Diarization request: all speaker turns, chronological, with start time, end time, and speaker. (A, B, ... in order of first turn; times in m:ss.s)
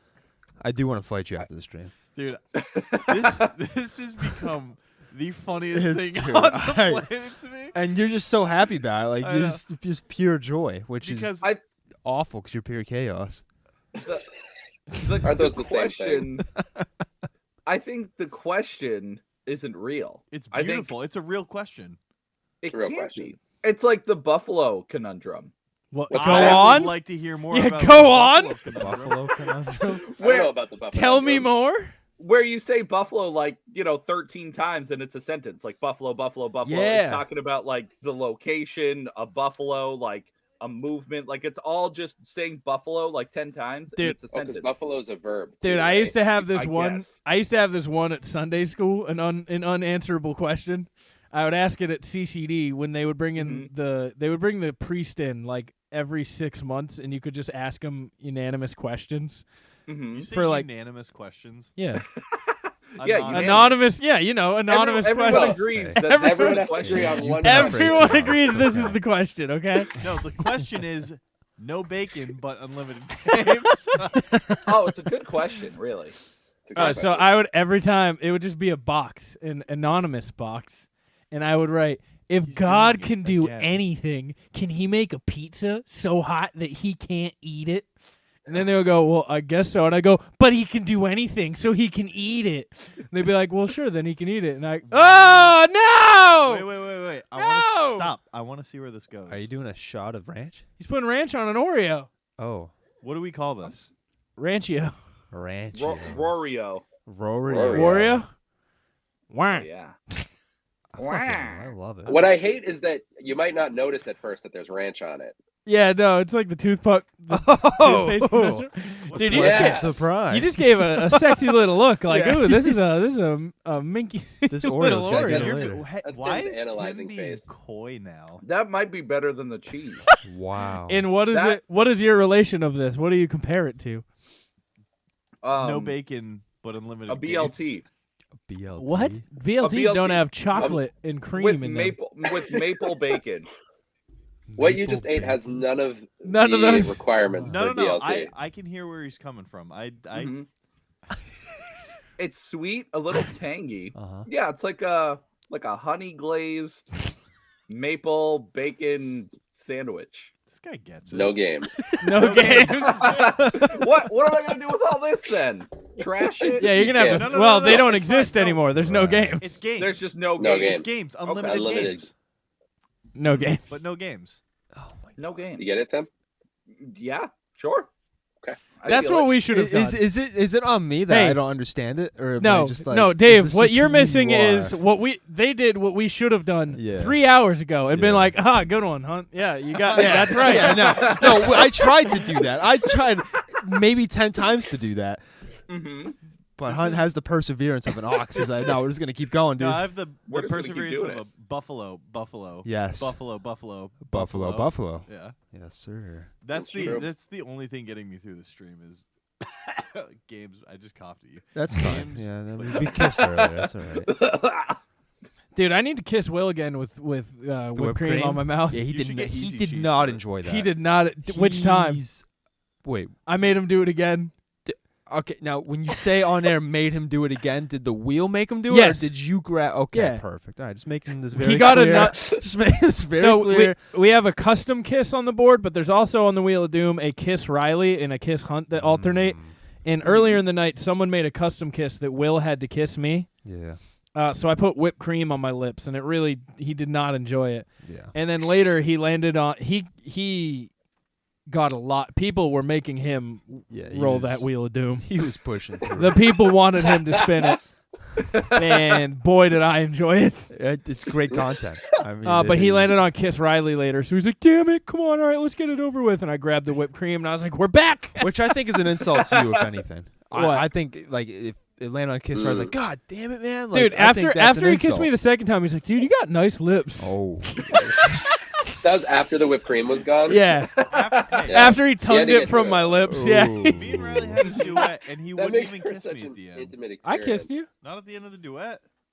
0:00.6-0:01.9 A
0:02.1-0:02.4 B
0:02.6-0:03.5 C
0:02.9-0:07.8 B
0:05.7-0:07.1 A
0:07.7-0:11.4 A
0:09.2-0:09.6 B
0:11.0-0:11.5 B
0:12.0-0:13.4 A
0:14.9-0:16.4 C
0:15.2-0:16.3 D
0:17.6-0:20.9 C
0:20.3-0:22.0 B
0:22.6-0:25.5 C
0:22.7-0:23.3 D
0:25.9-0:27.0 E
0:26.1-0:26.7 D
0:26.1-0:29.3 B
0:27.5-0:28.8 E
0:28.7-0:30.0 A
0:29.9-0:30.6 C
0:30.2-0:31.5 D
0:30.9-0:31.9 E
0:32.2-0:44.7 C
0:36.6-0:37.3 A
0:44.3-0:46.1 D
0:45.6-0:59.4 E
0:46.4-0:47.2 C
0:53.4-0:53.7 C
0:59.9-1:00.3 C
1:00.1-1:01.7 B
1:00.3-1:00.7 E
1:01.8-1:02.0 E
1:02.3-1:03.8 C
1:03.0-1:03.9 B
1:03.3-1:09.9 E
1:04.7-1:07.3 C
1:05.2-1:08.2 D
1:05.7-1:06.0 A
1:06.8-1:09.0 A
1:09.9-1:14.3 B
1:13.3-1:13.6 E
1:14.3-1:14.6 A
1:14.6-1:16.2 C
1:16.7-1:17.3 D
1:16.8-1:27.9 E
1:22.4-1:23.8 B
1:28.5-1:38.1 E
1:34.8-1:35.6 B
1:36.4-1:39.5 B
1:39.3-1:40.6 A
1:40.8-1:42.1 E
1:42.4-1:42.7 A
1:43.0-1:43.9 B
1:44.4-1:45.0 E
1:45.3-1:46.5 A
1:45.7-1:46.8 C
1:47.0-1:48.2 A
1:47.5-1:47.9 D
1:47.7-1:48.3 E
1:49.3-1:49.6 E
1:49.5-1:50.0 C
1:50.9-1:52.3 A
1:51.0-1:51.7 C
1:52.0-1:55.3 D
1:55.6-2:05.7 E
1:57.3-2:01.5 A
1:59.1-1:59.8 B
1:59.4-1:59.9 D
2:02.1-2:02.9 A
2:04.5-2:05.9 A
2:05.1-2:08.4 B
2:06.0-2:07.5 D
2:08.4-2:10.0 C
2:10.2-2:11.1 A
2:10.9-2:14.0 E
2:11.3-2:11.6 C
2:15.4-2:16.0 C
2:15.5-2:17.8 B
2:17.1-2:17.8 C
2:18.4-2:19.2 A
2:18.8-2:22.0 E
2:19.6-2:20.7 C
2:21.4-2:23.5 C
2:24.5-2:25.6 A
2:24.6-2:28.3 D
2:26.2-2:27.0 E
2:27.2-2:27.8 A
2:27.5-2:30.4 B
2:30.1-2:30.5 C
2:32.2-2:36.9 C
2:33.9-2:34.3 A
2:37.7-2:40.3 C
2:40.5-2:41.4 B
2:41.1-2:41.8 D
2:41.8-2:42.5 A
2:42.0-2:43.2 E
2:42.2-2:43.4 B
2:43.0-2:47.0 C
2:43.2-2:43.9 A
2:46.4-2:47.9 D
2:46.6-2:49.6 E
2:47.0-2:48.7 B
2:48.8-2:49.4 A
2:49.4-2:52.1 B
2:49.8-2:51.6 C
2:50.4-2:52.0 D
2:53.1-2:53.8 E
2:53.7-2:54.4 B
2:54.7-2:55.0 A
2:55.2-2:55.8 C
2:55.6-2:56.1 D
2:56.8-2:57.9 C
2:58.8-2:59.3 C
2:58.8-3:00.1 E
2:59.5-3:04.7 A
3:01.1-3:01.4 E
3:02.4-3:11.2 E
3:06.7-3:07.2 A
3:07.9-3:08.4 A
3:09.7-3:11.2 B
3:09.9-3:15.2 A
3:10.6-3:11.8 C
3:15.7-3:16.2 C
3:16.6-3:19.9 A
3:16.6-3:17.1 B
3:18.4-3:18.7 B
3:19.6-3:25.4 B
3:20.3-3:21.2 C
3:22.6-3:23.2 A
3:24.0-3:26.3 A
3:26.4-3:33.2 B
3:26.5-3:27.1 D
3:31.5-3:34.1 A
3:32.7-3:34.8 C
3:35.5-3:38.8 E
3:37.7-3:42.2 A
3:38.8-3:40.2 B
3:40.4-3:42.0 E
3:42.8-3:43.2 A
3:43.2-3:44.3 E
3:44.6-3:53.8 A
3:48.7-3:49.1 E
3:49.9-3:50.2 E
3:51.4-3:52.4 E
3:51.9-3:52.3 D
3:53.1-4:03.3 E
3:58.7-4:00.4 A
4:03.4-4:03.8 A
4:04.1-4:10.7 E
4:07.8-4:08.1 A
4:11.5-4:15.0 E
4:13.7-4:16.4 A
4:15.9-4:17.6 E
4:18.2-4:18.9 C
4:18.5-4:20.5 E
4:20.5-4:23.0 A
4:22.2-4:28.3 E
4:28.2-4:35.1 A
4:29.1-4:29.6 C
4:30.3-4:30.7 E
4:32.3-4:32.7 D
4:33.7-4:39.2 E
4:37.0-4:38.1 A
4:38.8-4:40.4 D
4:40.3-4:43.8 E
4:40.8-4:41.9 B
4:41.5-4:43.1 D
4:43.1-4:44.4 A
4:43.6-4:46.7 B
4:44.4-4:44.7 C
4:45.3-4:47.5 D
4:47.0-4:47.7 E
4:47.8-4:48.8 B